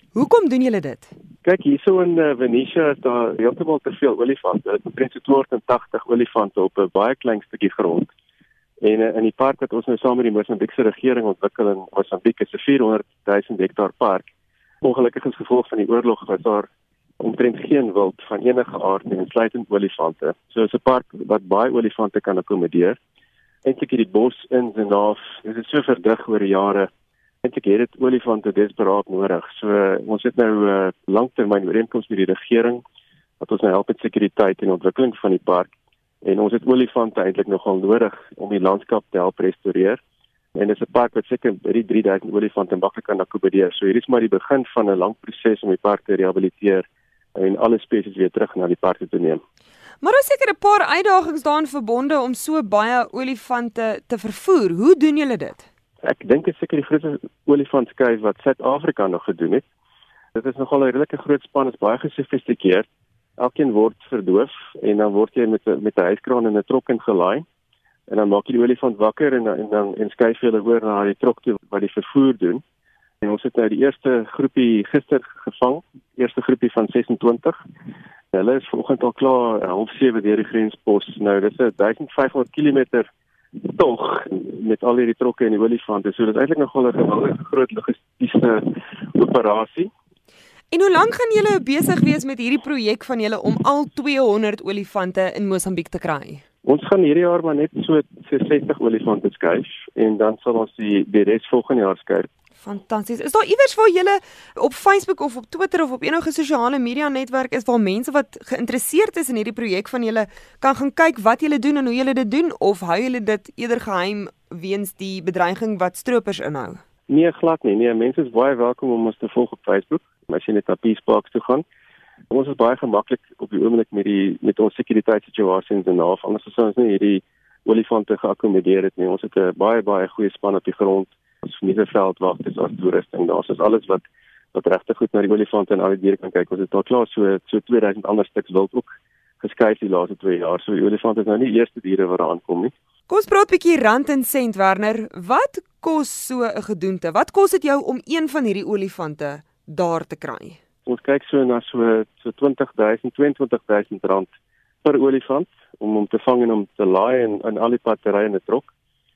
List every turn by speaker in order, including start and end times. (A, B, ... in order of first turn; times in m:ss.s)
0:00.2-0:01.1 A
0:01.4-0:08.1 B
0:08.8-0:14.3 B
0:14.8-0:16.7 B
0:17.2-0:23.0 B
0:23.6-0:26.9 B
0:27.4-0:32.8 B
0:33.4-0:35.7 B
0:36.2-0:40.0 B
0:40.6-0:49.4 B
0:50.0-0:55.7 A
0:56.0-0:59.6 B
1:00.4-1:02.9 B
1:03.4-1:07.4 B
1:08.1-1:12.6 B
1:13.2-1:17.6 B
1:18.3-1:29.9 B
1:30.7-1:36.4 A
1:36.6-1:42.3 B
1:42.6-1:56.8 A
1:57.1-2:01.6 B
2:02.3-2:22.7 B
2:23.1-2:30.6 A
2:30.9-2:34.3 B
2:34.8-2:38.7 B